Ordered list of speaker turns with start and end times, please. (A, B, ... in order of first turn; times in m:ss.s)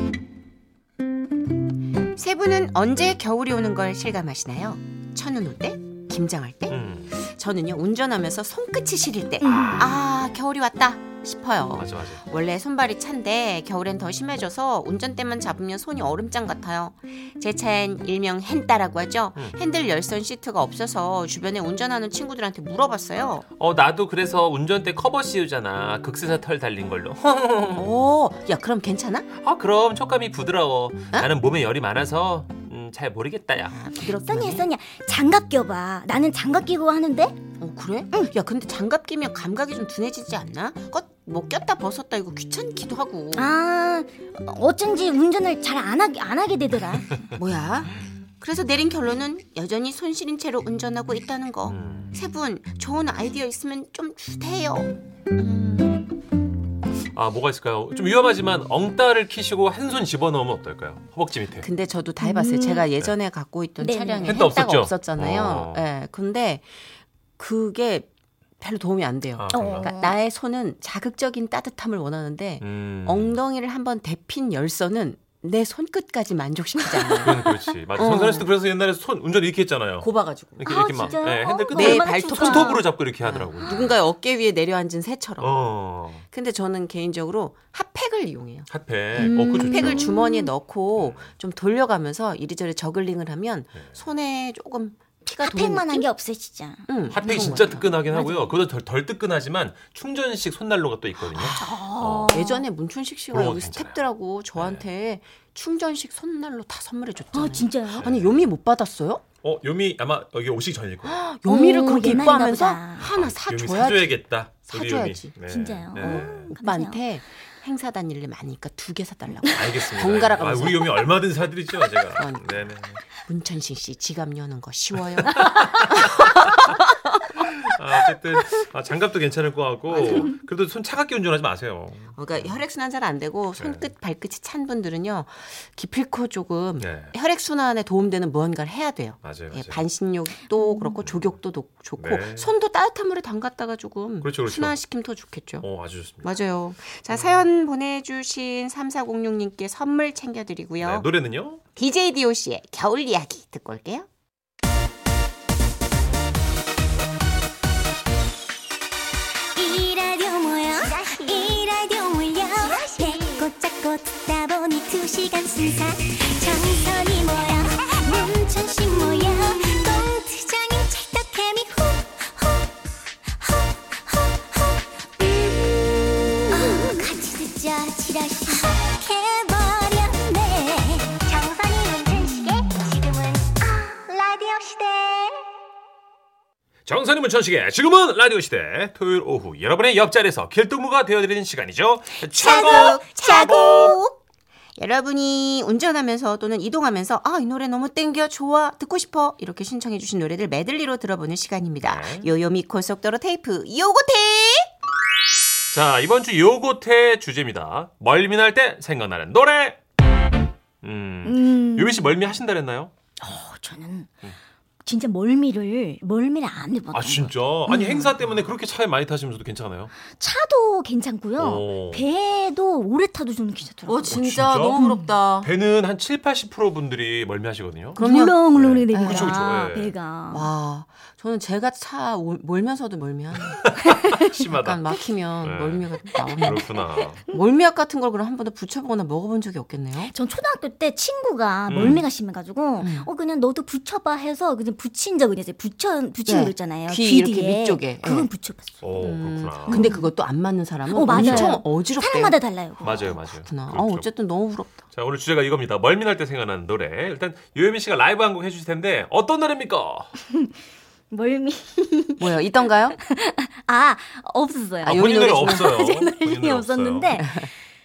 0:02.1-0:23.4 A
0:06.7-0:07.1 B
0:09.4-0:09.9 C
0:09.6-0:09.9 B
0:11.7-0:12.2 B
0:23.6-0:28.0 B
0:27.8-0:29.2 A
0:29.4-0:33.8 B
0:33.7-0:34.7 A
0:34.2-0:37.4 C
0:37.6-0:43.5 A
0:43.3-0:47.2 C
0:47.4-0:56.1 A
0:51.7-0:52.1 B
0:57.1-1:01.7 B
1:01.6-1:06.7 A
1:02.2-1:02.9 C
1:03.8-1:04.5 C
1:04.2-1:05.8 B
1:07.4-1:08.1 A
1:08.6-1:18.5 A
1:09.4-1:10.0 B
1:09.5-1:10.2 C
1:12.6-1:13.4 B
1:17.2-1:24.0 B
1:20.0-1:20.8 A
1:20.6-1:22.9 C
1:21.7-1:25.6 A
1:23.6-1:23.9 C
1:25.4-1:26.2 B
1:26.3-1:36.1 A
1:28.7-1:30.1 B
1:29.1-1:30.5 C
1:31.0-1:31.3 B
1:33.7-1:34.0 B
1:35.3-1:38.5 C
1:36.9-1:38.0 A
1:37.1-1:42.4 B
1:41.3-1:41.6 A
1:41.6-1:42.6 C
1:42.3-1:49.2 A
1:43.3-1:44.0 B
1:44.5-1:44.9 B
1:47.3-1:48.1 C
1:48.0-1:48.5 B
1:49.4-1:51.2 B
1:51.0-1:54.2 A
1:51.5-1:53.1 C
1:53.0-1:56.5 B
1:54.7-1:55.3 A
1:55.4-1:57.0 C
1:56.0-2:01.0 A
1:59.4-2:03.0 B
2:02.1-2:02.5 A
2:03.1-2:06.8 A
2:05.2-2:05.8 B
2:07.4-2:12.6 B
2:12.1-2:25.7 A
2:13.6-2:13.9 B
2:16.8-2:17.1 B
2:19.2-2:19.8 B
2:20.6-2:20.9 C
2:21.0-2:21.4 B
2:22.0-2:22.5 B
2:24.2-2:24.8 B
2:25.6-2:26.4 B
2:26.2-2:31.1 A
2:27.1-2:27.4 B
2:30.8-2:31.6 B
2:31.8-2:34.1 A
2:39.5-2:52.7 C
2:53.3-3:05.4 C
3:06.8-3:14.0 B
3:12.4-3:14.1 C
3:12.4-3:14.0 A
3:14.8-3:24.7 A
3:21.8-3:22.3 B
3:25.7-3:29.8 B
3:30.8-3:32.9 B
3:31.2-3:32.1 C
3:33.2-3:34.1 C
3:34.8-3:38.1 C
3:36.9-3:39.9 B
3:40.2-3:44.2 C
3:41.4-3:42.1 B
3:43.8-3:45.5 A
3:44.0-3:44.8 B
3:44.8-3:45.1 C
3:45.4-3:48.0 B
3:48.0-3:50.5 C
3:48.0-3:48.4 A
3:48.5-3:49.9 B
3:48.9-3:49.4 A
3:50.3-3:53.6 A
3:53.4-3:57.2 B
3:54.5-3:56.7 A
3:56.4-3:56.8 C
3:57.2-4:00.1 A
4:00.0-4:08.8 C
4:01.7-4:02.1 B
4:02.8-4:03.1 A
4:06.2-4:08.3 A
4:08.8-4:09.9 B
4:09.0-4:12.4 A
4:09.7-4:10.1 C
4:10.9-4:13.1 C
4:11.1-4:11.6 B
4:12.8-4:14.1 B
4:12.9-4:14.8 A
4:14.9-4:20.1 B
4:21.1-4:22.4 C
4:22.2-4:23.0 A
4:23.0-4:27.5 C
4:24.8-4:27.2 B
4:24.8-4:25.7 A
4:27.2-4:27.5 A